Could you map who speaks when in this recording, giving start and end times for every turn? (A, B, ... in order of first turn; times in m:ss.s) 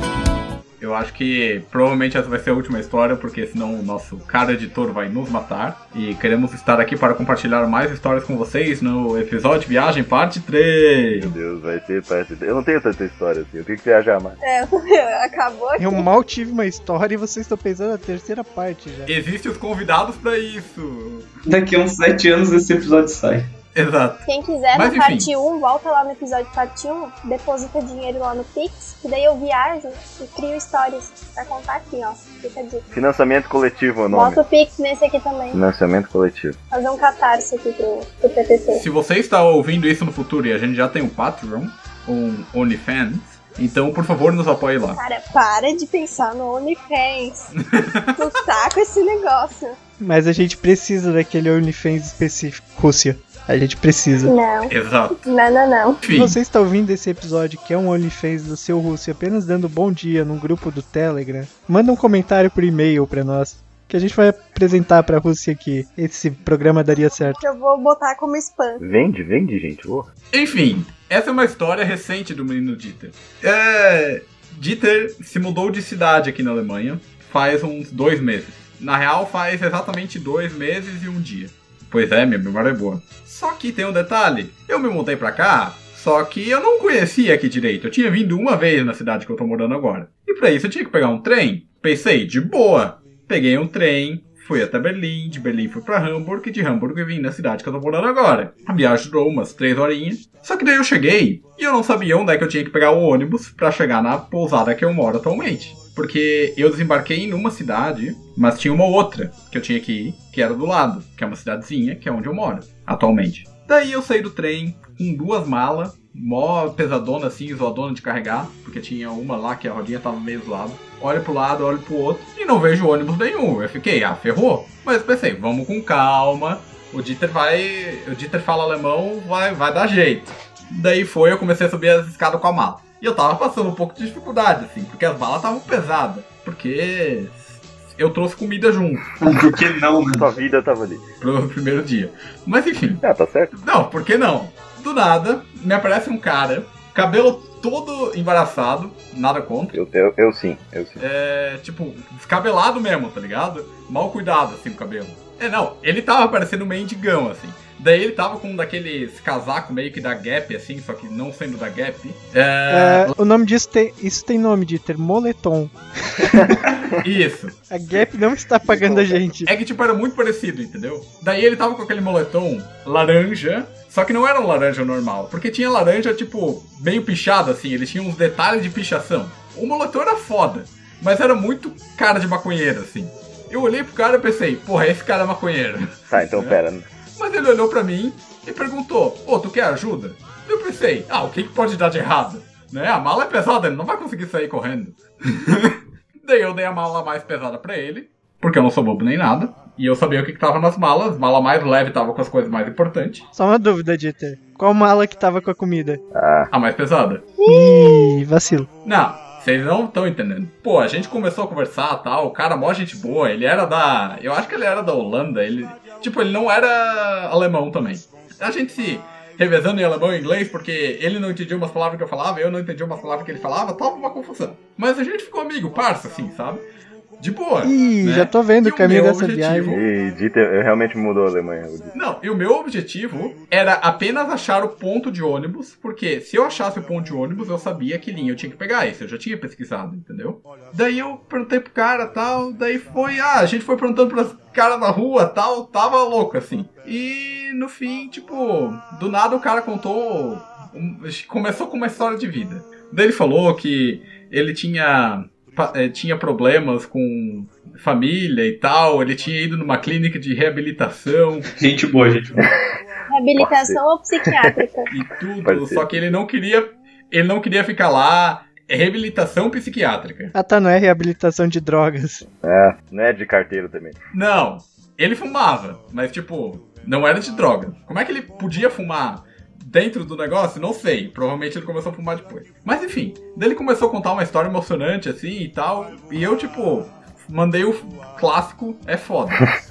0:00.8-0:11.3 A
0:11.1-0:14.4 B
0:14.4-0:16.1 C
0:15.8-0:19.1 D
0:19.1-0:21.3 A
0:21.5-0:23.5 E
0:23.8-0:25.3 A
0:24.3-0:32.8 C
0:32.9-0:34.4 B
0:34.1-0:35.6 C
0:35.5-0:36.6 B
0:36.7-0:38.8 C
0:38.8-0:45.0 A
0:44.9-0:47.5 C
0:47.7-0:48.3 A
0:48.2-0:49.8 C
0:50.0-0:54.3 D
0:54.2-0:56.0 C
0:54.7-0:55.2 A
0:56.0-0:56.4 A
0:56.1-1:07.4 D
1:07.4-1:08.8 C
1:08.8-1:10.1 B
1:10.3-2:19.1 A
2:19.2-2:20.3 E
2:20.1-2:21.0 B
2:21.2-2:23.0 A
2:23.0-2:23.5 B
2:23.6-2:29.8 A
2:29.7-2:31.0 B
2:31.0-2:43.1 A
2:42.7-2:46.6 D
2:47.0-2:47.6 A
2:47.7-2:49.5 D
2:48.6-2:49.3 B
2:49.5-3:06.6 A
3:06.1-3:06.9 B
3:07.2-3:23.3 A
3:23.4-3:26.0 D
3:26.1-3:26.5 B
3:26.5-3:27.3 A
3:27.4-3:28.2 C
3:27.4-3:28.7 D
3:28.8-3:46.6 A
3:47.2-3:49.8 A
3:47.6-3:49.8 D
3:49.7-3:52.0 B
3:52.0-4:21.5 A
4:21.6-4:22.4 E
4:23.1-4:24.9 C
4:23.4-4:23.8 B
4:24.9-4:30.4 A
4:25.4-4:26.1 B
4:30.4-4:32.2 D
4:32.3-4:34.0 B
4:34.1-4:49.5 A